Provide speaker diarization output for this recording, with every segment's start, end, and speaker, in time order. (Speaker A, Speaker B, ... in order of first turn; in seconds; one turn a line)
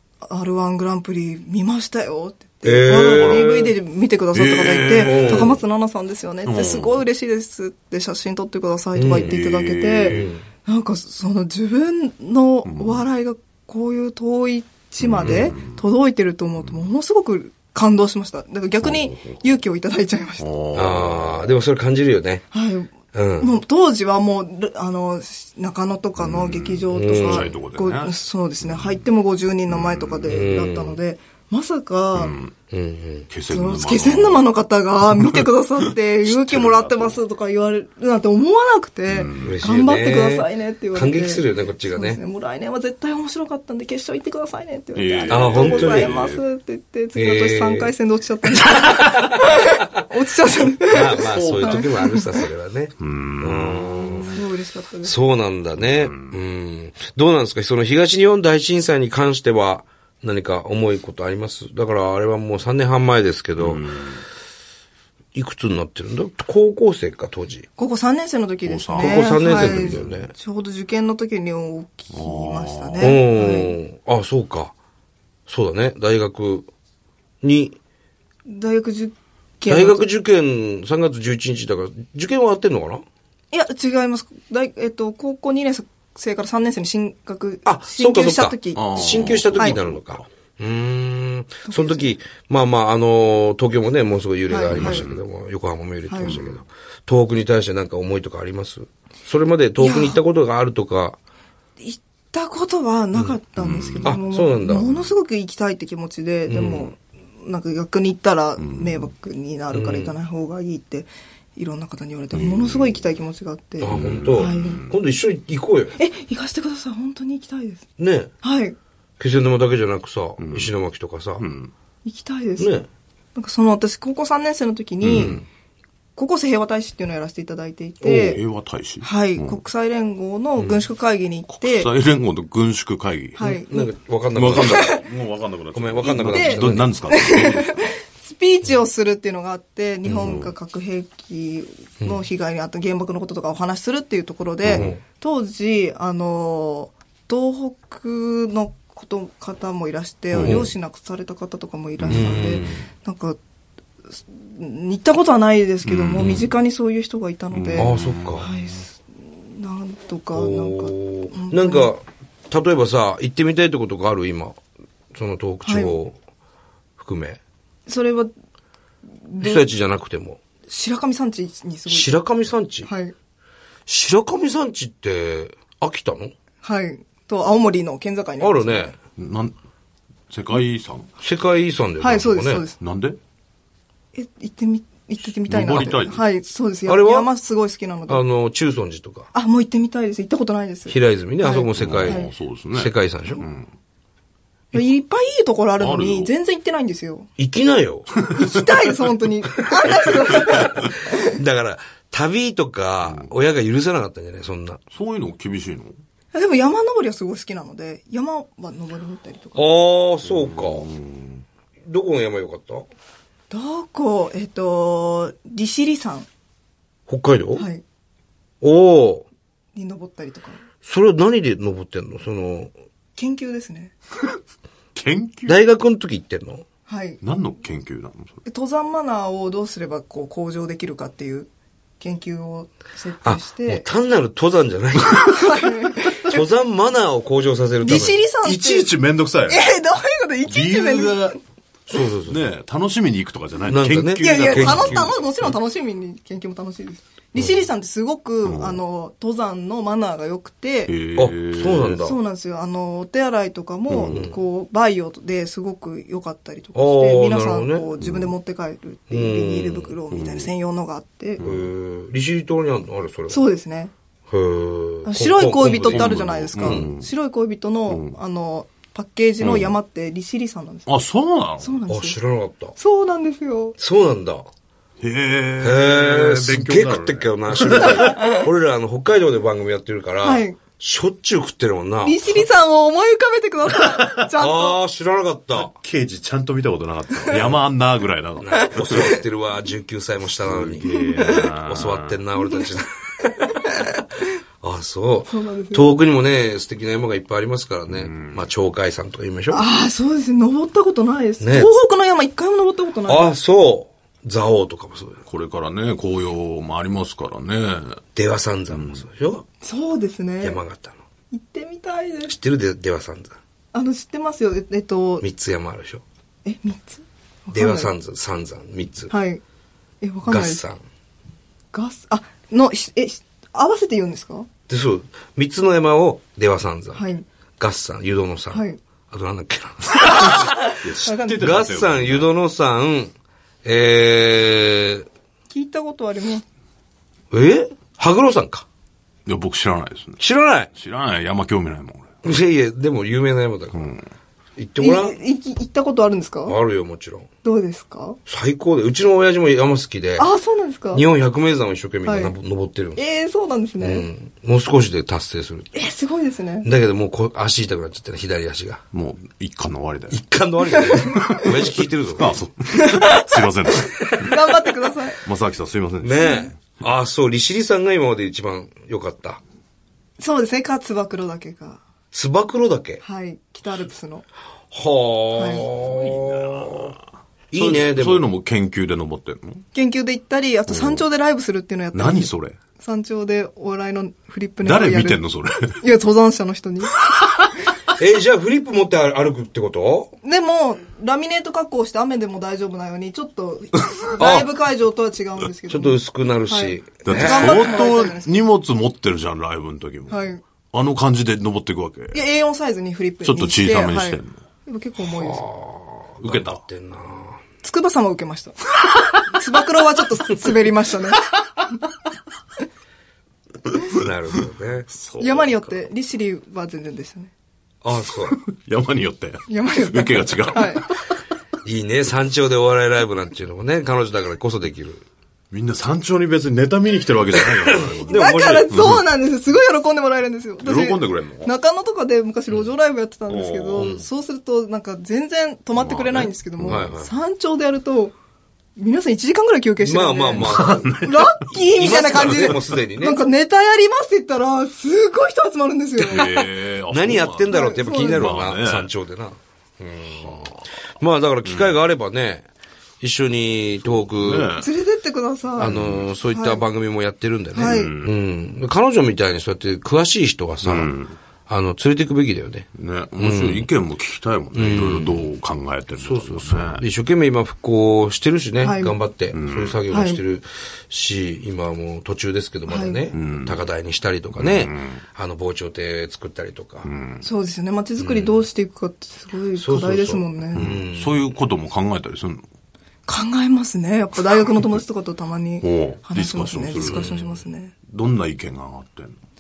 Speaker A: 0.2-20.5
Speaker B: 2.6-3.7
Speaker C: 3.1-3.6
Speaker C: 4.3-5.6
Speaker B: 5.0-5.5
Speaker C: 6.5-7.0
Speaker B: 9.0-9.4
Speaker C: 9.1-10.3
Speaker B: 10.1-10.5
Speaker C: 12.7-13.1
Speaker C: 15.0-15.8
Speaker C: 18.8-19.4
Speaker C: 20.4-21.5
Speaker B: 20.7-22.4
Speaker A: 22.5-32.4
Speaker B: 23.1-23.5
Speaker C: 26.2-29.0
Speaker B: 26.9-27.6
Speaker C: 29.7-30.3
Speaker B: 30.3-31.0
Speaker C: 32.1-32.5
Speaker B: 32.7-33.3
Speaker C: 33.3-34.5
Speaker A: 33.5-52.4
Speaker C: 35.0-37.2
Speaker C: 39.1-39.6
Speaker B: 39.4-42.2
Speaker C: 45.0-46.4
Speaker B: 45.3-46.2
Speaker B: 47.2-47.9
Speaker B: 50.9-54.3
Speaker C: 51.3-51.9
Speaker C: 53.0-54.3
Speaker A: 54.2-55.1
Speaker B: 55.0-63.8
Speaker C: 55.8-56.4
Speaker C: 63.6-64.2
Speaker B: 65.3-67.7
Speaker A: 67.8-73.8
Speaker C: 68.7-70.1
Speaker B: 68.9-70.3
Speaker C: 72.1-73.0
Speaker B: 73.0-74.7
Speaker B: 75.5-76.7
Speaker B: 77.4-77.8
Speaker A: 78.5-80.0
Speaker B: 79.7-83.0
Speaker A: 83.5-88.9
Speaker B: 87.7-101.2
Speaker C: 88.7-90.2
Speaker A: 91.7-92.0
Speaker A: 94.5-95.0
Speaker C: 94.7-95.2
Speaker A: 96.1-96.4
Speaker C: 96.2-96.5
Speaker A: 99.8-100.2
Speaker A: 101.8-114.8
Speaker C: 103.6-104.1
Speaker B: 104.0-104.9
Speaker B: 106.5-106.9
Speaker C: 108.6-109.1
Speaker B: 109.7-110.2
Speaker C: 112.3-113.0
Speaker B: 113.8-116.0
Speaker C: 113.9-114.9
Speaker A: 116.0-117.8
Speaker B: 118.0-118.3
Speaker A: 118.4-118.8
Speaker B: 119.2-121.4
Speaker C: 120.4-120.7
Speaker C: 121.4-121.7
Speaker A: 122.1-122.7
Speaker B: 122.6-122.9
Speaker A: 123.3-125.4
Speaker C: 125.0-125.5
Speaker A: 126.2-128.4
Speaker C: 128.0-129.6
Speaker A: 129.0-131.9
Speaker B: 130.6-130.9
Speaker C: 131.5-133.5
Speaker A: 133.4-133.9
Speaker B: 133.7-134.9
Speaker C: 134.3-137.9
Speaker A: 134.5-135.1
Speaker B: 135.8-136.9
Speaker A: 136.0-153.4
Speaker B: 140.1-140.4
Speaker C: 140.2-140.5
Speaker C: 144.7-144.9
Speaker B: 144.7-145.0
Speaker C: 150.3-150.7
Speaker B: 150.4-150.7
Speaker C: 152.0-152.6
Speaker B: 152.1-152.9
Speaker A: 154.3-161.9
Speaker C: 155.8-156.5
Speaker C: 157.5-158.6
Speaker B: 157.8-158.5
Speaker B: 160.3-164.6
Speaker B: 165.1-166.2
Speaker A: 165.7-166.0
Speaker B: 167.0-167.4
Speaker A: 167.9-168.3
Speaker A: 169.3-169.7
Speaker B: 169.4-170.4
Speaker A: 170.7-172.1
Speaker B: 171.9-172.9
Speaker A: 172.8-173.1
Speaker B: 173.9-176.3
Speaker A: 176.6-178.9
Speaker B: 178.4-178.9
Speaker C: 179.2-179.5
Speaker C: 180.3-181.1
Speaker B: 181.2-182.7
Speaker A: 182.0-182.8
Speaker C: 182.8-183.2
Speaker A: 184.1-188.2
Speaker C: 185.5-186.3
Speaker B: 186.9-187.3
Speaker B: 188.1-189.3
Speaker A: 189.3-192.3
Speaker B: 190.9-193.5
Speaker C: 191.8-193.7
Speaker A: 194.7-197.3
Speaker C: 195.8-196.3
Speaker B: 197.4-198.1
Speaker A: 198.3-201.2
Speaker B: 200.8-204.8
Speaker C: 204.9-206.0
Speaker A: 206.3-209.6
Speaker B: 209.6-210.9
Speaker C: 210.2-211.4
Speaker B: 211.9-212.9
Speaker A: 213.5-216.3
Speaker B: 217.1-217.7
Speaker A: 217.6-217.8
Speaker B: 218.6-219.3
Speaker A: 219.8-220.6
Speaker B: 220.8-222.7
Speaker A: 223.2-223.9
Speaker C: 224.9-225.6
Speaker B: 225.5-226.7
Speaker A: 226.9-227.2
Speaker C: 227.2-228.4
Speaker A: 228.5-231.5
Speaker A: 232.0-233.9
Speaker B: 233.2-238.2
Speaker A: 235.1-236.4
Speaker A: 237.8-238.9
Speaker C: 238.4-239.7
Speaker A: 239.5-241.4
Speaker C: 240.4-241.4
Speaker B: 241.9-242.4
Speaker C: 242.3-245.5
Speaker B: 243.7-245.2
Speaker A: 244.2-250.9
Speaker C: 248.4-248.8
Speaker C: 250.9-252.0
Speaker B: 251.2-252.2
Speaker A: 252.0-261.4
Speaker C: 253.9-254.3
Speaker B: 254.1-254.3
Speaker B: 256.8-257.9
Speaker C: 258.0-258.3
Speaker B: 259.1-260.0
Speaker C: 260.1-260.5
Speaker C: 261.4-261.7
Speaker B: 261.4-263.4
Speaker A: 263.3-263.9
Speaker B: 264.3-266.9
Speaker A: 265.1-270.9
Speaker C: 265.8-267.1
Speaker C: 267.9-268.1
Speaker C: 269.4-269.7
Speaker C: 270.9-271.8
Speaker A: 271.6-272.2
Speaker B: 271.9-272.8
Speaker A: 272.8-273.8
Speaker B: 273.8-274.5
Speaker C: 275.0-278.1
Speaker B: 275.6-282.3
Speaker A: 278.0-278.3
Speaker A: 280.2-280.6
Speaker A: 282.0-284.8
Speaker B: 284.4-285.7
Speaker C: 285.6-289.1
Speaker B: 288.4-293.9
Speaker C: 290.5-292.2
Speaker A: 290.8-291.5
Speaker A: 292.4-292.7
Speaker B: 294.6-299.7
Speaker A: 295.2-296.0
Speaker C: 297.9-298.5
Speaker A: 299.5-303.4
Speaker B: 301.4-301.7
Speaker B: 303.1-305.2
Speaker C: 305.2-308.0
Speaker B: 308.1-309.4
Speaker C: 308.7-309.0
Speaker A: 309.6-310.6
Speaker B: 310.4-311.0
Speaker A: 311.3-312.4
Speaker B: 312.3-313.4
Speaker A: 313.7-315.2
Speaker B: 315.2-316.0
Speaker A: 316.5-317.9
Speaker B: 317.5-319.1
Speaker A: 319.1-319.4
Speaker A: 320.0-320.6
Speaker B: 320.3-320.8
Speaker A: 321.7-324.5
Speaker B: 324.7-327.0
Speaker A: 326.9-327.2
Speaker B: 327.6-330.8
Speaker A: 328.5-328.8
Speaker C: 330.8-332.3
Speaker A: 331.0-331.4
Speaker B: 331.4-333.1
Speaker B: 333.6-335.1
Speaker A: 335.5-336.4
Speaker B: 337.3-338.6
Speaker C: 339.3-340.2
Speaker B: 340.2-340.7
Speaker C: 340.7-342.1
Speaker B: 342.2-343.9
Speaker C: 343.7-344.0
Speaker B: 344.6-345.2
Speaker A: 344.8-346.6
Speaker B: 346.5-347.3
Speaker A: 347.4-348.2
Speaker B: 348.3-350.3
Speaker A: 350.2-351.0
Speaker B: 350.9-353.0
Speaker A: 352.0-352.4
Speaker A: 353.0-354.1
Speaker B: 353.8-355.7
Speaker A: 355.7-356.7
Speaker B: 356.6-358.8
Speaker C: 358.9-360.2
Speaker B: 360.1-362.4
Speaker A: 360.8-361.5
Speaker C: 361.1-364.3
Speaker A: 362.7-363.4
Speaker A: 364.2-365.2
Speaker C: 365.3-366.8
Speaker B: 366.0-369.4
Speaker A: 366.2-366.5
Speaker A: 370.2-371.8
Speaker B: 372.1-373.0
Speaker A: 373.0-374.3
Speaker B: 374.7-376.9
Speaker A: 375.3-375.7
Speaker C: 375.8-377.0
Speaker B: 377.5-378.3
Speaker C: 377.5-379.6
Speaker A: 379.7-387.0
Speaker C: 380.7-381.0
Speaker C: 381.9-382.6
Speaker C: 384.6-385.8
Speaker B: 387.9-390.1
Speaker A: 390.2-398.4
Speaker B: 394.2-394.5
Speaker B: 395.7-397.6
Speaker C: 397.1-402.2
Speaker A: 400.1-400.4
Speaker A: 402.1-405.5
Speaker C: 403.2-404.3
Speaker B: 405.1-407.4
Speaker C: 406.2-406.6
Speaker A: 407.6-411.3
Speaker B: 413.8-414.9
Speaker C: 414.9-415.7
Speaker A: 415.2-417.3
Speaker B: 417.8-418.4
Speaker C: 418.4-421.0
Speaker A: 419.5-420.9
Speaker B: 421.6-425.0
Speaker C: 425.5-429.0
Speaker B: 427.9-428.8
Speaker A: 428.1-438.2
Speaker C: 430.6-431.5
Speaker C: 433.3-433.9
Speaker B: 433.8-434.0
Speaker C: 435.8-436.8
Speaker B: 436.6-437.1
Speaker A: 438.8-446.4
Speaker B: 439.8-441.0
Speaker C: 440.4-441.3
Speaker B: 441.5-443.2
Speaker B: 446.0-452.5
Speaker C: 446.1-448.9
Speaker A: 447.5-448.5
Speaker C: 450.1-450.5
Speaker C: 451.4-451.8
Speaker B: 453.0-454.5
Speaker C: 453.8-454.7
Speaker A: 454.6-456.6
Speaker B: 455.6-460.9
Speaker C: 455.7-456.1
Speaker A: 457.5-458.0
Speaker C: 457.7-458.1
Speaker C: 460.6-461.1
Speaker B: 461.5-463.7
Speaker C: 462.8-466.8
Speaker B: 464.5-465.3
Speaker B: 466.0-476.9
Speaker A: 468.6-469.0
Speaker C: 469.3-469.8
Speaker A: 469.9-470.2
Speaker A: 472.7-473.0
Speaker C: 473.1-473.7
Speaker C: 474.4-475.0
Speaker C: 476.9-477.3
Speaker A: 477.2-480.7
Speaker B: 478.0-478.4
Speaker B: 479.6-481.2
Speaker C: 480.5-482.4
Speaker A: 483.1-487.7
Speaker C: 485.6-489.2